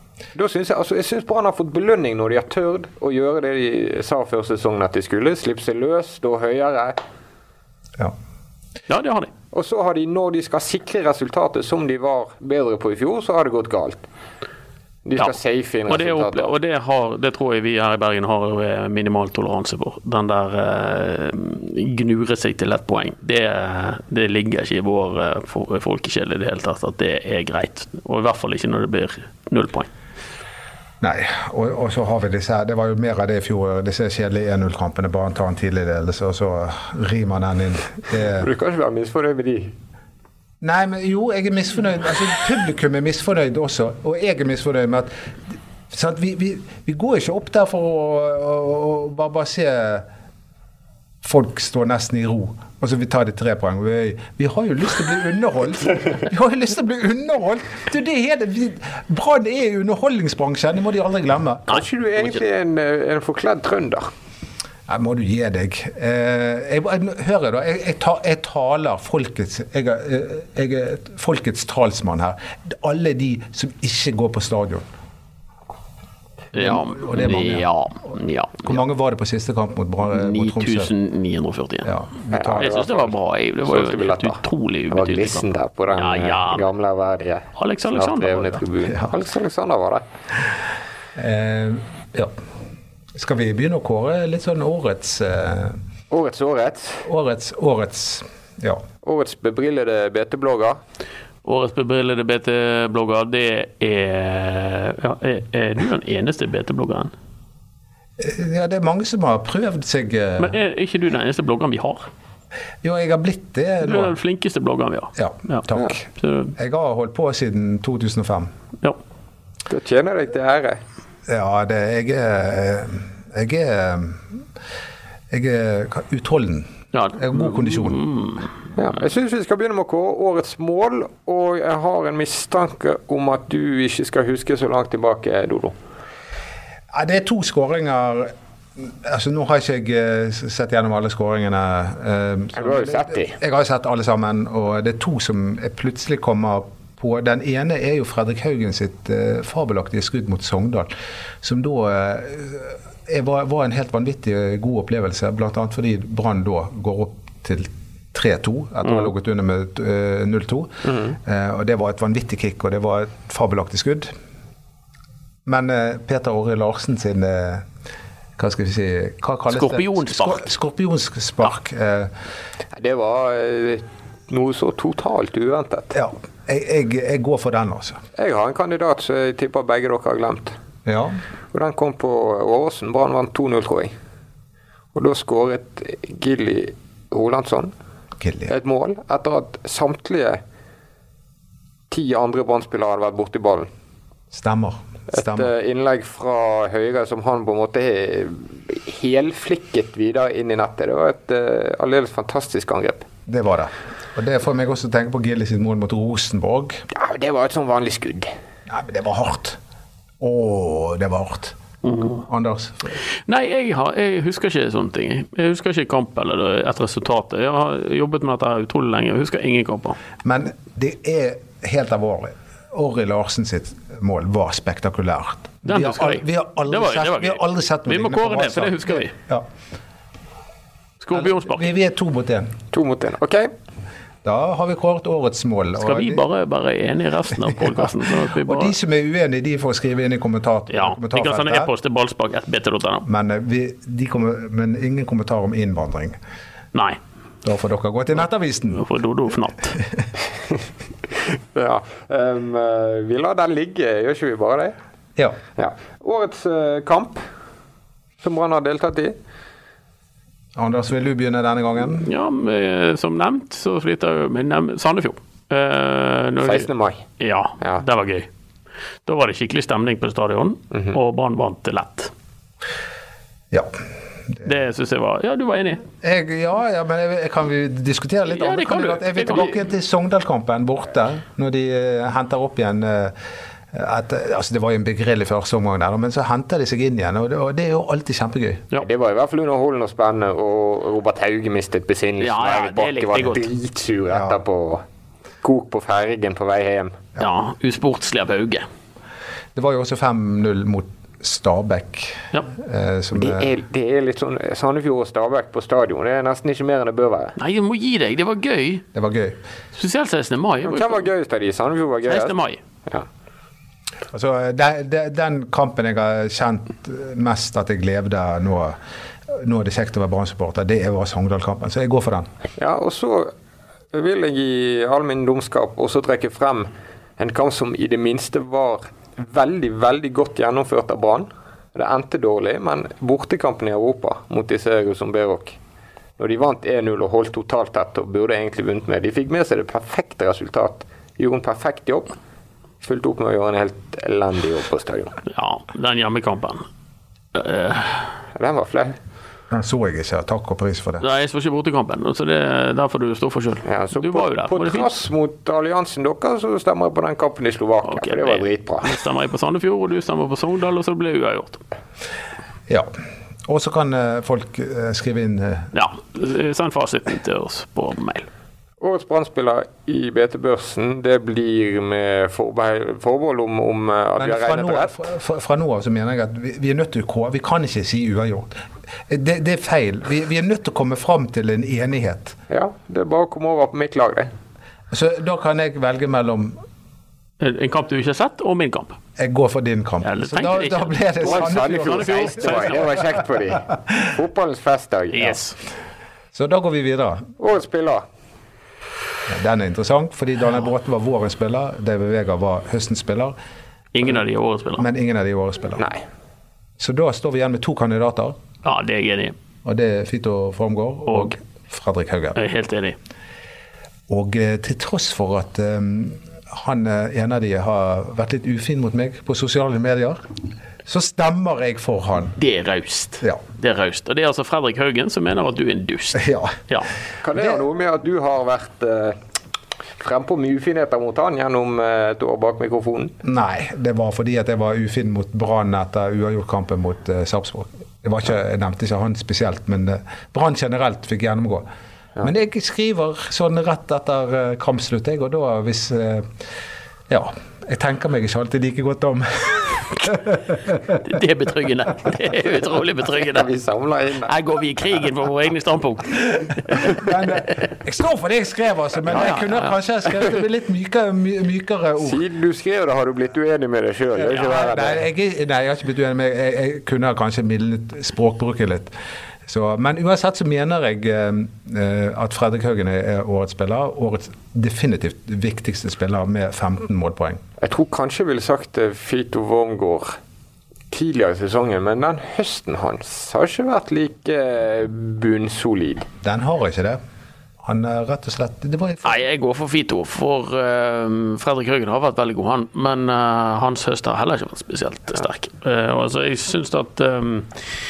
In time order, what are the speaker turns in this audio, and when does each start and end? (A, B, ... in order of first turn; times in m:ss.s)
0:00.3-0:07.0 A
0:08.9-0:09.3 B
0:09.5-0:14.0 A
0:15.0-0:16.5 A
0:15.9-0:29.9 B
0:31.0-0:38.4 C
0:38.2-0:39.7 A
0:40.6-0:50.0 C
0:51.2-1:01.8 C
1:01.7-1:04.1 A
1:04.9-1:14.9 C
1:16.5-1:17.6 C
1:16.5-1:18.8 B
1:18.6-1:20.9 C
1:20.0-1:21.9 B
1:21.8-1:22.7 C
1:22.3-1:23.1 A
1:22.5-1:26.6 B
1:23.6-1:30.0 A
1:27.6-1:28.6 B
1:31.2-1:32.3 C
1:33.1-1:35.8 C
1:36.1-1:37.1 A
1:37.0-1:38.8 C
1:39.0-1:40.8 A
1:41.4-1:47.1 B
1:48.2-1:50.5 C
1:50.4-1:52.1 B
1:52.8-1:54.1 C
1:53.8-1:55.6 B
1:55.2-1:56.0 C
1:56.2-1:56.5 B
1:56.5-1:58.5 C
1:59.7-2:00.8 A
2:01.2-2:04.4 C
2:05.3-2:08.0 C
2:06.9-2:08.5 B
2:08.8-2:15.7 A
2:16.9-2:30.9 C
2:22.6-2:23.4 A
2:31.4-2:44.1 C
2:38.8-2:39.1 B
2:40.8-2:41.2 A
2:45.4-2:47.6 C
2:48.4-2:52.1 C
2:49.5-2:50.5 B
2:52.7-2:55.9 A
2:55.9-2:58.0 C
2:58.2-3:00.5 A
3:00.8-3:01.2 C
3:01.5-3:03.9 A
3:04.9-3:07.7 A
3:08.2-3:08.5 C
3:08.5-3:10.4 A
3:11.9-3:13.7 A
3:14.3-3:15.5 C
3:15.1-3:23.0 A
3:23.3-3:26.8 C
3:26.9-3:28.3 A
3:28.7-3:29.6 C
3:30.2-3:31.6 C
3:31.8-3:32.2 B
3:32.2-3:33.0 C
3:33.2-3:40.0 B
3:40.2-3:49.5 C
3:45.6-3:49.1 B
3:51.0-3:51.7 B
3:51.1-3:52.6 C
3:52.7-3:53.5 A
3:54.2-3:56.2 C
3:55.8-3:58.7 B
3:58.4-4:01.7 C
4:00.7-4:03.1 B
4:03.0-4:06.2 C
4:07.4-4:08.8 C
4:08.7-4:09.8 B
4:11.5-4:14.7 A
4:15.6-4:17.2 A
4:18.2-4:19.1 A
4:20.5-4:22.1 C
4:22.0-4:26.7 B
4:26.4-4:27.0 A
4:27.2-4:28.3 B
4:29.0-4:32.1 B
4:34.4-4:35.8 B
4:36.0-4:43.2 C
4:38.3-4:39.6 B
4:43.7-4:48.7 C
4:48.8-4:54.8 A
4:52.2-4:53.5 B
4:55.4-4:57.0 A
4:57.2-4:58.6 B
4:59.5-5:03.5 C
5:03.1-5:07.3 A
5:07.4-5:08.8 B
5:08.9-5:09.4 C
5:09.7-5:11.1 B
5:10.6-5:13.0 A
5:12.0-5:12.6 B
5:14.1-5:18.8 C
5:19.3-5:22.3 C
5:22.6-5:23.3 A
5:23.9-5:35.6 A
5:36.2-5:42.1 A
5:42.8-5:45.2 A
5:45.3-5:46.6 B
5:47.3-5:48.1 B
5:48.3-5:49.0 A
5:49.5-5:51.0 C
5:51.0-5:54.9 B
5:53.6-5:58.9 A
5:57.9-6:01.6 B
6:03.5-6:05.7 C
6:05.7-6:08.3 B
6:08.8-6:15.0 A
6:14.2-6:18.5 C
6:19.1-6:22.4 C
6:22.5-6:24.3 A
6:24.9-6:26.6 C
6:27.4-6:29.0 B
6:29.2-6:32.8 C
6:30.0-6:32.8 B
6:31.2-6:35.4 A
6:35.1-6:35.5 B
6:36.3-6:37.3 C
6:37.4-6:38.0 A
6:39.3-6:43.4 C
6:43.9-6:44.9 B
6:44.8-6:45.9 C
6:46.8-6:48.4 C
6:48.6-6:49.3 B
6:49.6-6:52.4 C
6:51.1-6:51.3 B
6:52.3-6:53.0 B
6:54.1-7:00.2 C
7:00.8-7:02.4 C
7:02.4-7:06.9 B
7:06.1-7:06.6 C
7:07.2-7:09.2 A
7:10.0-7:13.1 A
7:13.2-7:21.6 C
7:22.2-7:26.3 C
7:27.1-7:31.0 C
7:30.9-7:33.5 B
7:33.0-7:34.3 A
7:34.2-7:37.1 B
7:36.7-7:42.2 C
7:39.1-7:39.8 B
7:42.0-7:45.0 A
7:44.2-7:48.9 C
7:49.4-7:57.4 C
7:57.6-8:00.2 A
8:00.9-8:06.1 A
8:06.2-8:07.0 C
8:07.6-8:09.2 C
8:09.0-8:17.5 B